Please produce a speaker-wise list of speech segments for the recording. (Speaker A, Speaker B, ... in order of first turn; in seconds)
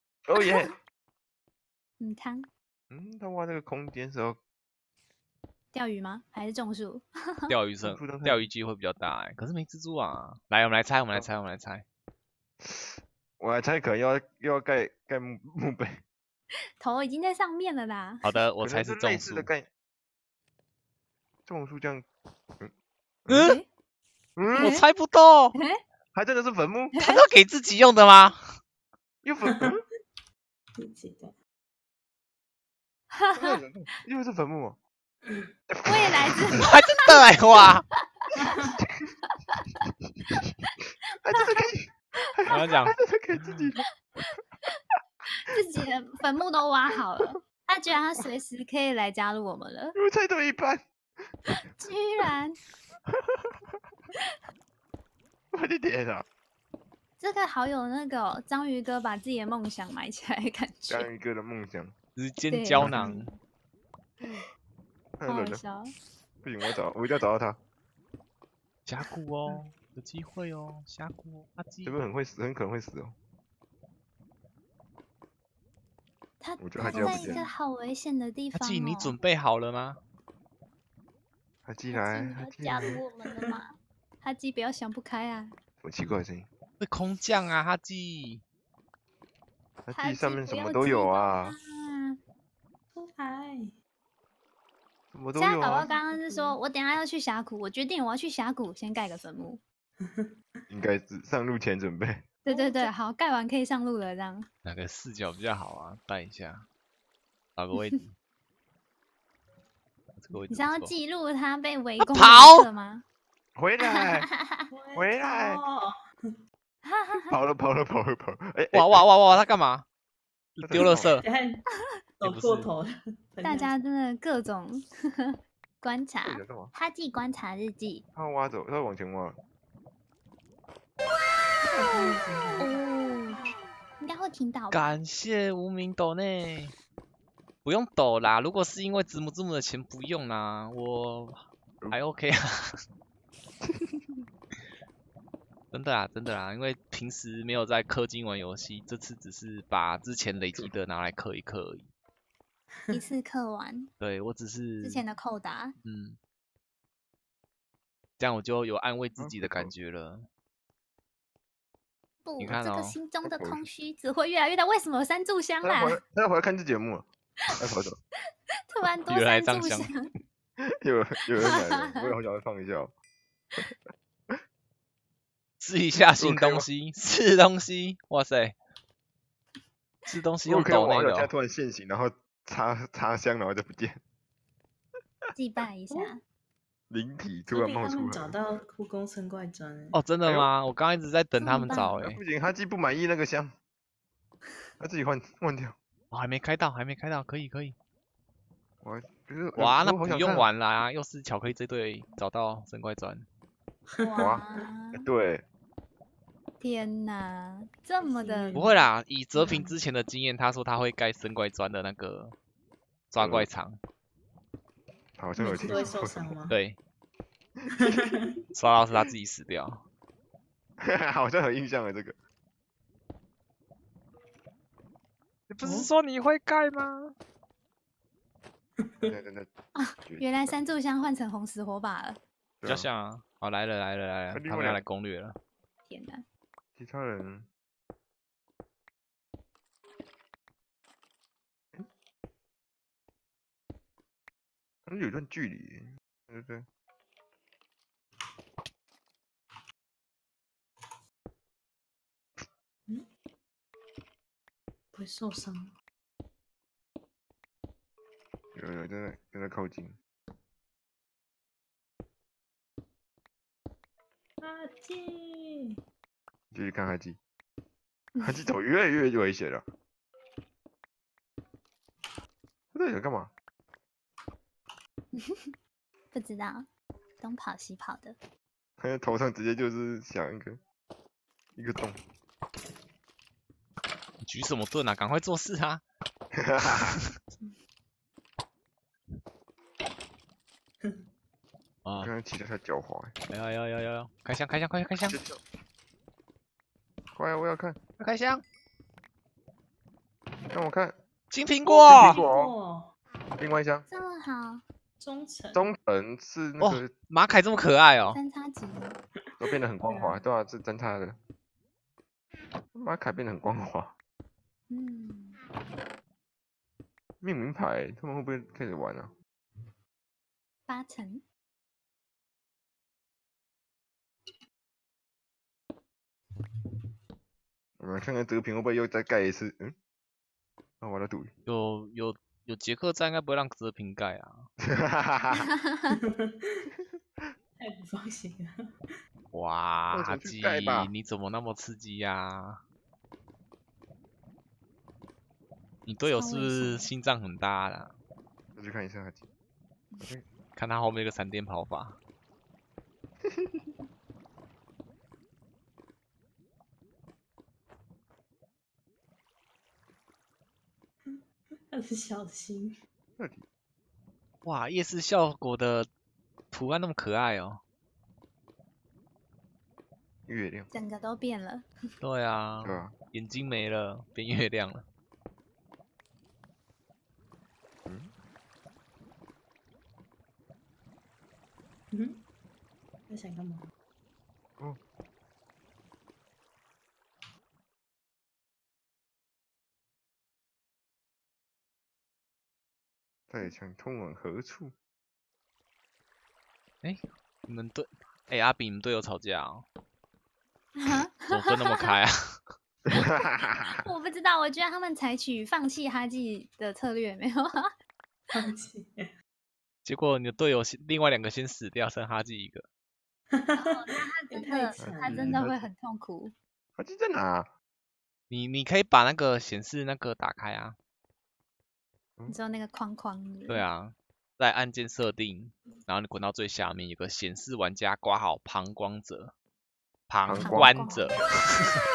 Speaker A: 0.3-0.8, 2.9-4.4, 7.8-8.5, 12.6-16.0, 18.6-19.7, 21.5-22.1, 23.2-23.5, 24.4-24.7, 26.1-27.0, 29.2-29.9, 33.4-34.8, 35.7-36.6, 38.8-39.1, 41.2-43.9, 50.0-50.9, 53.1-53.8, 55.5-56.3, 60.9-61.9, 62.8-63.1, 65.2-65.6, 66.4-67.6, 71.8-73.2, 76.6-77.5, 81.7-83.0, 85.8-86.5, 89.9-91.6, 95.1-95.9, 100.7-102.3, 113.6-114.3, 115.0-115.6, 117.3-119.1, 120.6-121.2, 126.2-126.7, 128.2-129.4, 143.6-144.2, 159.2-159.7, 163.2-163.7, 165.6-168.0, 170.6-172.9, 176.2-176.7, 180.5-184.0, 186.9-188.4, 190.2-190.5, 191.7-193.6, 194.8-195.8, 198.8-200.5, 205.0-205.4, 213.2-213.5, 215.2-216.3, 217.8-218.1, 220.8-222.2, 229.1-229.5, 230.1-230.5, 232.6-232.9, 234.3-234.8, 236.8-237.5, 244.9-246.7, 258.5-259.9, 266.5-267.2, 268.2-269.7, 272.7-273.3, 278.8-280.6, 281.6-282.0, 286.3-287.0, 292.0-293.1, 295.1-295.4, 297.1-297.8, 300.5-301.0, 301.9-302.5, 303.4-303.9, 305.5-306.9, 309.4-311.2, 312.7-313.9, 317.2-319.1, 327.8-329.8, 330.8-331.3, 334.6-335.4, 339.9-340.9, 348.6-349.2, 353.3-353.7, 363.2-363.4, 370.3-370.7, 372.6-372.9, 377.9-378.1, 393.3-394.7, 402.9-403.8, 414.8-415.6, 416.8-417.5, 430.2-431.4
Speaker B: 2.0-2.5, 5.7-7.5, 16.8-18.2, 24.5-24.9, 26.9-27.3, 33.1-33.5, 35.9-37.1, 38.2-38.7, 40.3-40.7, 41.4-41.7, 45.4-50.0, 51.5-52.6, 57.2-61.1, 62.5-63.2, 65.3-66.0, 76.4-79.2, 81.9-85.6, 90.0-92.2, 95.3-99.6, 102.4-104.5, 110.5-113.0, 114.0-114.6, 116.8-117.4, 123.4-128.0, 132.6-134.9, 152.9-153.9, 154.8-155.8, 162.2-166.0, 168.7-170.1, 185.3-186.2, 191.4-192.0, 204.0-205.1, 206.6-208.6, 215.7-216.0, 229.8-232.2, 235.9-236.2, 268.1-268.4, 275.1-275.5, 276.1-276.7, 277.2-278.2, 303.9-304.6, 308.1-309.0, 314.7-315.4, 320.7-321.2, 335.4-335.9, 346.0-346.9, 370.7-371.7, 400.8-401.8, 403.1-407.6, 413.6-416.3, 422.3-423.6, 430.4-431.2
Speaker C: 7.5-11.8, 18.2-19.5, 23.3-23.6, 24.5-25.6, 27.0-28.4, 36.6-37.9, 42.5-43.0, 62.2-63.3, 68.9-72.0, 76.8-77.5, 78.5-80.0, 86.8-88.4, 104.6-106.7, 107.6-108.1, 110.2-110.9, 112.0-112.7, 118.7-119.8, 120.6-121.2, 122.2-122.7, 134.7-136.8, 137.6-142.7, 145.7-151.9, 154.0-155.1, 155.8-156.2, 158.2-160.3, 162.4-163.0, 169.1-169.9, 175.6-178.6, 180.1-181.3, 189.9-192.2, 196.1-197.8, 199.6-203.3, 208.5-212.4, 213.1-213.8, 216.5-216.8, 218.6-219.8, 225.5-227.1, 232.6-235.4, 284.2-285.8, 291.8-292.1, 293.3-295.2, 298.0-298.4, 301.3-302.2, 306.6-308.2, 331.5-334.5, 339.3-342.6, 345.9-347.9, 350.6-352.0, 364.4-365.9, 366.5-367.6, 372.0-374.9, 396.8-399.7, 401.3-402.4, 409.9-412.7, 418.3-420.8, 423.5-429.3, 430.1-431.7
Speaker D: 30.8-31.4, 35.2-35.5, 82.8-83.6, 93.0-93.7, 95.7-96.6, 100.0-100.3, 102.5-102.9, 114.7-116.3, 120.8-121.6, 122.2-123.7, 131.6-132.8, 187.5-190.0, 204.0-204.4, 208.0-208.8, 209.4-209.7, 215.4-216.6, 217.7-218.4, 225.6-225.9, 228.8-229.1, 254.9-255.7, 264.4-265.8, 301.6-302.9, 305.0-305.7, 309.4-310.2, 335.9-336.7, 337.6-338.6, 361.7-362.8, 381.9-382.2, 383.1-383.7, 408.3-409.1, 413.3-413.7, 414.3-415.4